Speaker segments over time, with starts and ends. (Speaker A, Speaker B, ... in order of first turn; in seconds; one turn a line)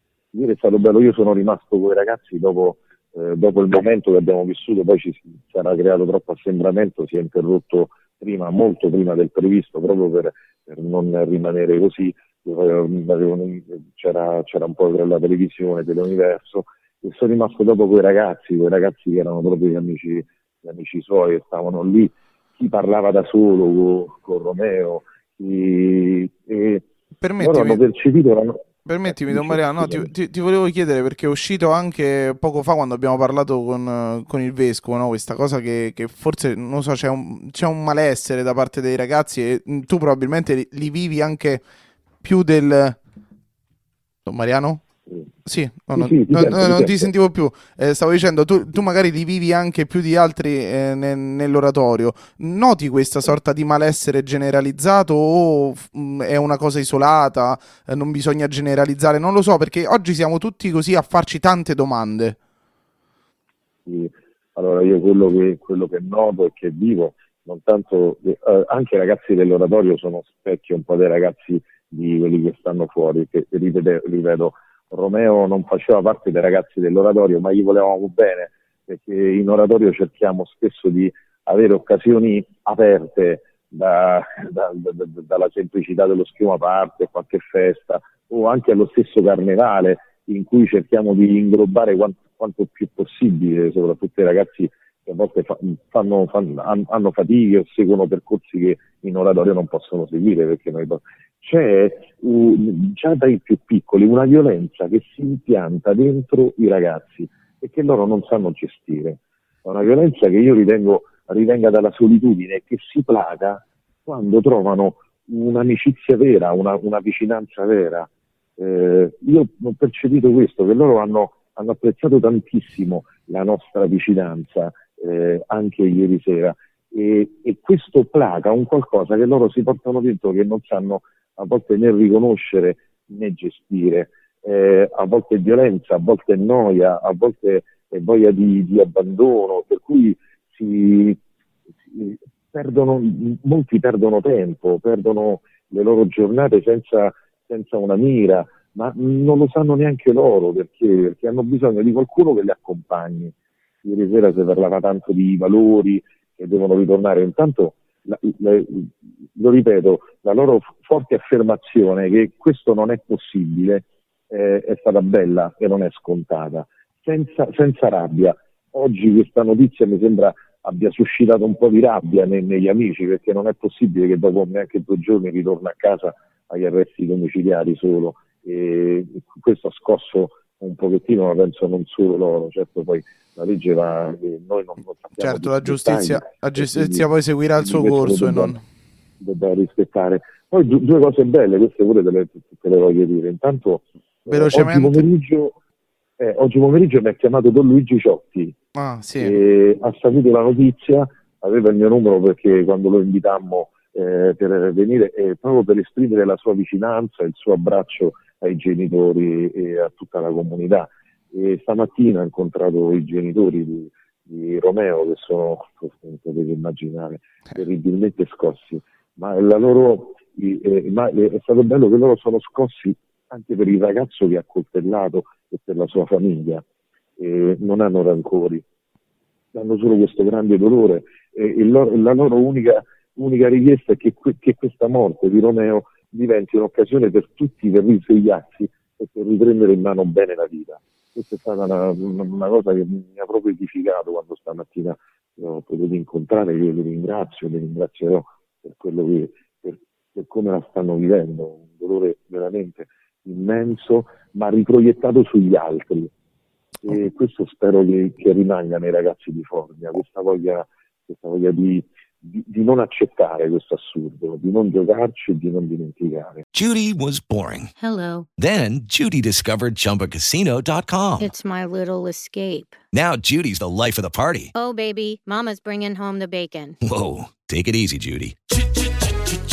Speaker A: 0.3-26.8
Speaker B: 27.2-27.8
Speaker A: 27.4-30.1
Speaker B: 28.9-41.6
Speaker B: 42.2-43.0
Speaker B: 44.2-44.8
Speaker B: 45.4-62.4
Speaker A: 45.9-47.1
Speaker A: 63.9-141.2
Speaker A: 141.9-188.6
Speaker B: 185.2-188.6
Speaker A: 189.2-195.6
Speaker B: 194.3-195.1
Speaker A: 196.2-198.5
Speaker B: 198.7-199.3
Speaker A: 199.2-226.6
Speaker A: 227.2-228.6
Speaker A: 229.5-256.1
Speaker A: 256.8-266.4
Speaker C: 266.5-267.7
Speaker D: 267.8-268.3
Speaker C: 268.4-271.3
Speaker D: 271.2-272.8
Speaker C: 272.9-274.5
Speaker D: 274.6-276.8
Speaker C: 276.8-278.3